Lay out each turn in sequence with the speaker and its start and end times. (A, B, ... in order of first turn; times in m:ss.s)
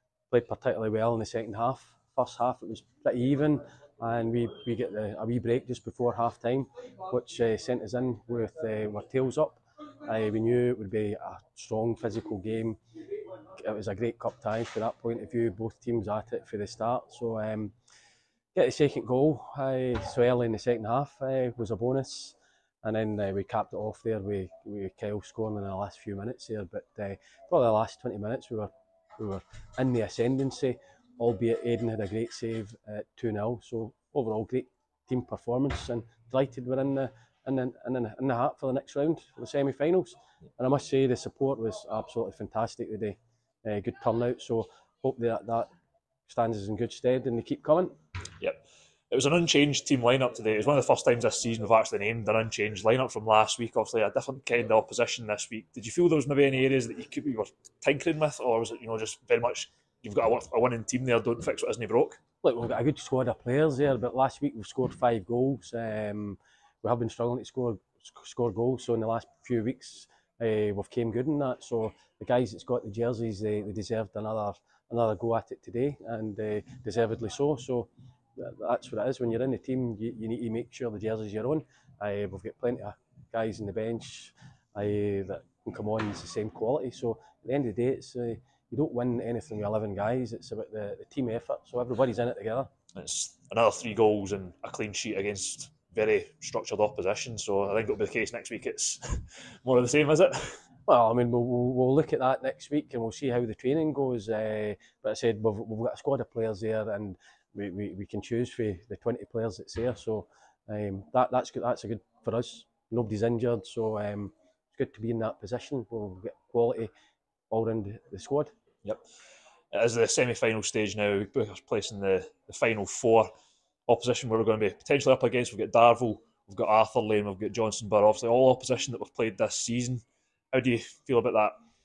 0:00.3-0:12.8 A
0:13.5-0:17.7 A
0:18.5-0:45.7 A
0:46.3-0:47.9 A
0:49.1-1:02.2 B
1:02.4-1:32.7 A
1:32.9-1:40.6 B
1:40.9-1:56.9 A
1:57.5-1:58.5 A
1:59.7-2:03.3 B
2:03.9-2:10.0 B
2:10.5-2:11.5 B